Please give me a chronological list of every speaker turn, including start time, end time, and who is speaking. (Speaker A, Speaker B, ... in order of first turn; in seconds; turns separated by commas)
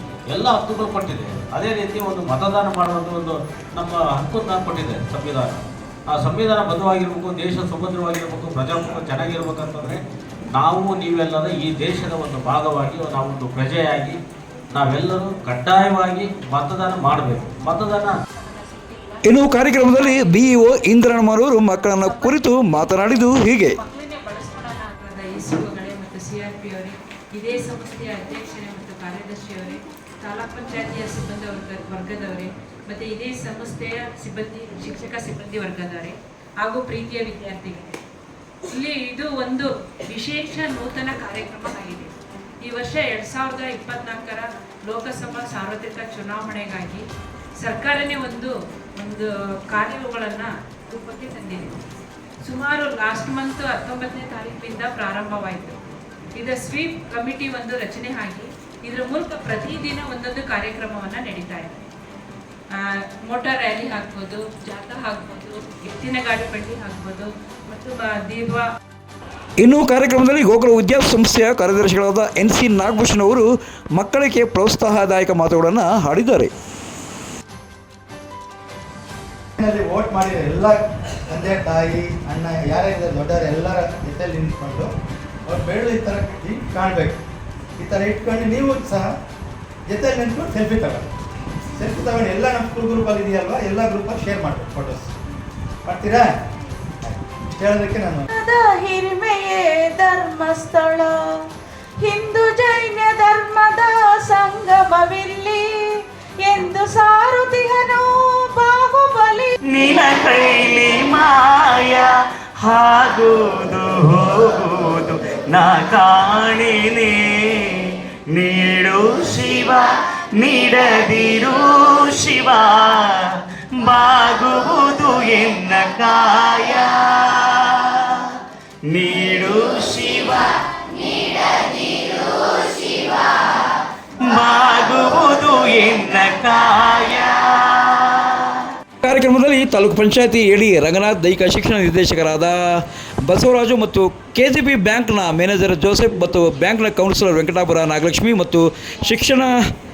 Speaker A: 0.3-10.0, Speaker A: 10.5-14.2, Speaker A: 14.8-18.1, Speaker B: 19.2-23.8, Speaker C: 24.0-38.0, Speaker C: 38.7-42.1, Speaker C: 42.6-47.0, Speaker C: 47.6-51.8, Speaker C: 52.4-55.8, Speaker C: 56.4-61.8, Speaker C: 62.8-68.7, Speaker B: 69.6-76.5, Speaker D: 79.6-84.9, Speaker D: 85.5-87.2, Speaker D: 87.8-89.1, Speaker D: 89.9-91.1, Speaker D: 91.8-95.1, Speaker D: 95.8-96.3, Speaker D: 97.0-98.3, Speaker E: 98.3-101.4, Speaker E: 102.0-109.5, Speaker F: 109.9-112.1, Speaker F: 112.6-123.2, Speaker F: 123.8-128.2, Speaker F: 128.9-130.5, Speaker F: 131.8-133.2, Speaker F: 134.2-138.6, Speaker B: 139.0-149.5